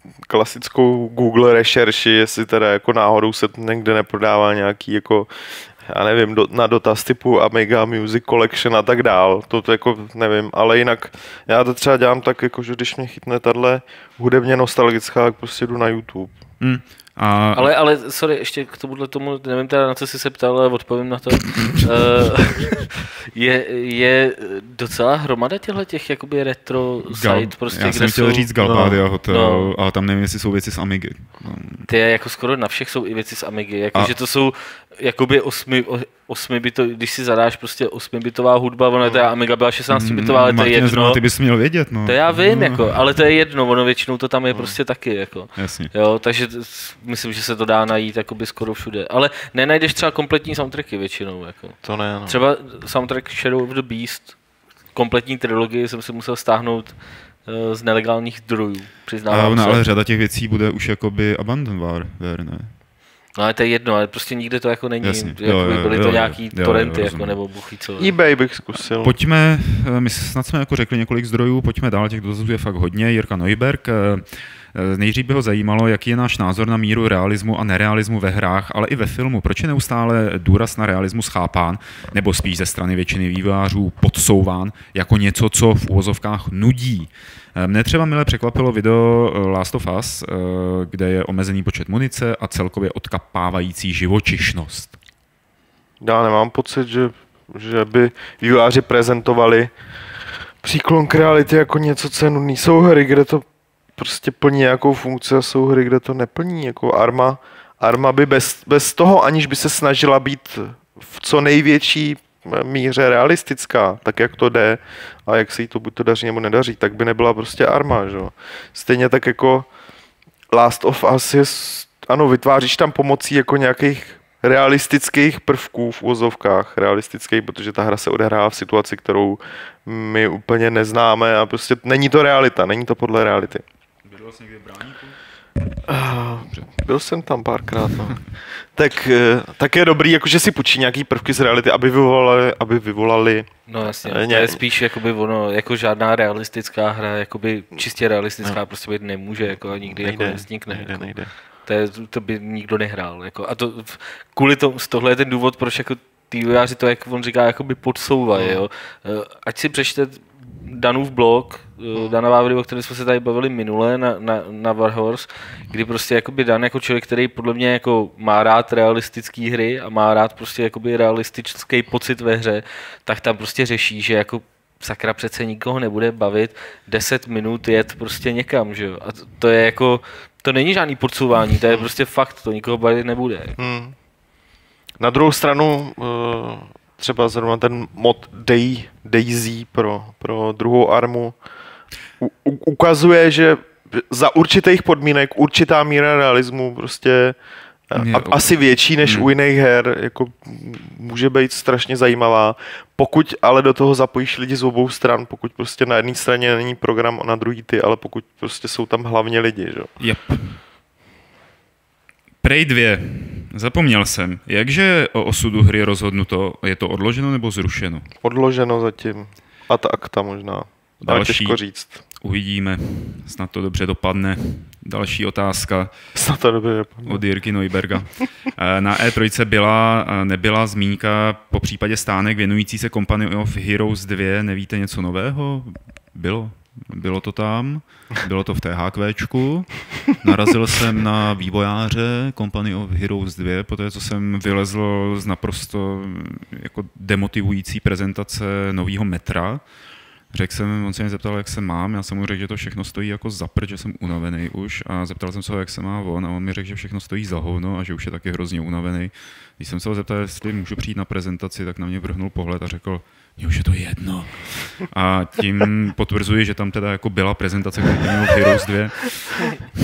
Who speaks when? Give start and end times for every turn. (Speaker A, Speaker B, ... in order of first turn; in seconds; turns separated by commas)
Speaker A: 0.2-16.3, Speaker B: 16.6-17.7, Speaker C: 17.5-29.7, Speaker B: 27.1-31.9, Speaker C: 31.9-41.2, Speaker B: 39.9-43.0, Speaker C: 42.0-54.4, Speaker A: 44.5-44.8, Speaker B: 45.6-45.9, Speaker A: 51.8-52.4, Speaker C: 54.9-59.8, Speaker B: 59.3-62.7, Speaker C: 63.3-68.1, Speaker B: 65.0-67.4, Speaker A: 68.0-69.1, Speaker B: 69.0-94.9, Speaker A: 96.0-99.7, Speaker A: 100.6-103.4, Speaker A: 104.0-119.7, Speaker A: 120.5-133.6, Speaker B: 134.1-135.2, Speaker A: 135.8-144.6, Speaker C: 143.7-183.6, Speaker A: 150.0-151.3, Speaker A: 158.3-158.6, Speaker A: 183.6-183.9, Speaker A: 185.0-191.4, Speaker A: 192.2-197.3, Speaker A: 197.9-209.9, Speaker B: 197.9-199.3, Speaker B: 210.0-210.6, Speaker B: 212.4-218.1, Speaker A: 218.2-222.0, Speaker B: 221.0-225.9, Speaker A: 226.1-227.2, Speaker B: 227.1-249.6, Speaker B: 250.3-269.5